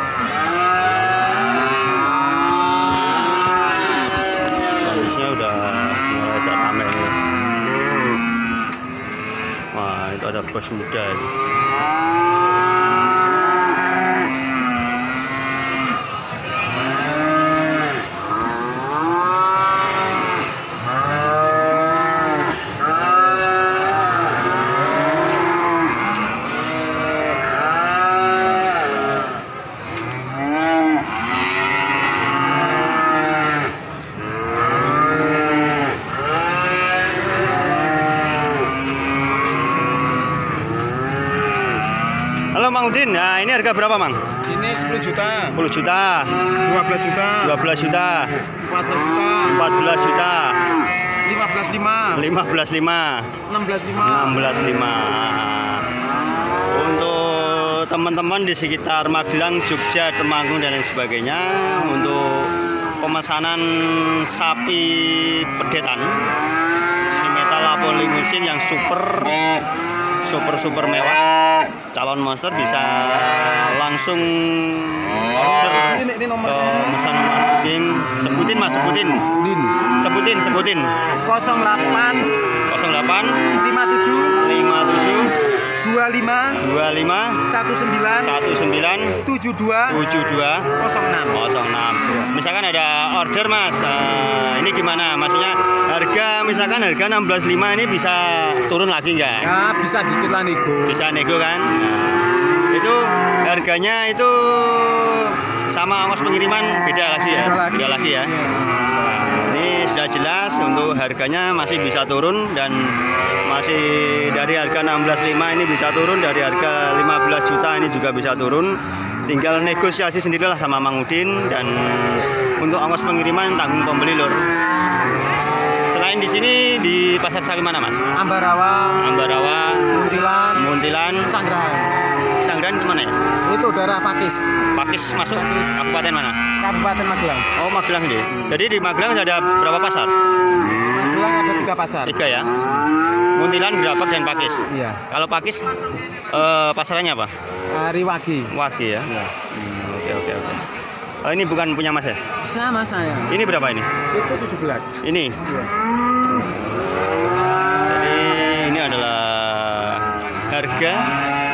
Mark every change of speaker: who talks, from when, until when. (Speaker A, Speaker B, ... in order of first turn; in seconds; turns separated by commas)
Speaker A: 4.8-7.2, Speaker A: 9.7-11.3, Speaker A: 42.5-44.2, Speaker B: 44.5-45.6, Speaker A: 45.5-46.4, Speaker B: 46.6-47.6, Speaker A: 47.4-48.4, Speaker B: 48.6-49.6, Speaker A: 49.4-50.6, Speaker B: 51.2-52.3, Speaker A: 52.1-53.4, Speaker B: 53.5-54.4, Speaker A: 54.0-55.9, Speaker A: 56.7-66.3, Speaker A: 67.0-69.4, Speaker A: 70.2-71.2, Speaker A: 71.9-79.3, Speaker B: 75.4-77.0, Speaker B: 79.3-79.8, Speaker A: 80.0-80.9, Speaker B: 81.2-82.3, Speaker A: 82.7-83.5, Speaker B: 83.6-84.4, Speaker A: 84.4-85.3, Speaker B: 85.8-86.6, Speaker A: 86.6-87.5, Speaker B: 87.5-88.3, Speaker A: 88.2-89.2, Speaker B: 89.2-90.0, Speaker A: 89.9-90.7, Speaker B: 90.8-91.4, Speaker A: 91.3-99.5, Speaker B: 99.4-101.0, Speaker A: 100.9-108.3, Speaker B: 107.2-108.7, Speaker A: 108.9-124.5, Speaker A: 125.9-128.0, Speaker B: 128.2-129.1, Speaker A: 129.0-129.9, Speaker B: 129.9-132.0, Speaker A: 130.6-131.4, Speaker A: 132.4-133.2, Speaker B: 133.4-134.5, Speaker A: 134.7-136.4, Speaker B: 135.3-135.8, Speaker B: 136.6-137.5, Speaker A: 137.6-140.1, Speaker B: 140.9-142.2, Speaker A: 142.1-142.5, Speaker A: 143.3-147.3, Speaker B: 144.7-145.0, Speaker B: 147.7-148.5, Speaker A: 148.5-150.7, Speaker A: 151.2-152.2, Speaker B: 152.4-153.4, Speaker A: 153.3-153.9, Speaker B: 154.1-155.7, Speaker A: 155.0-155.4, Speaker A: 156.3-156.6, Speaker A: 157.9-161.1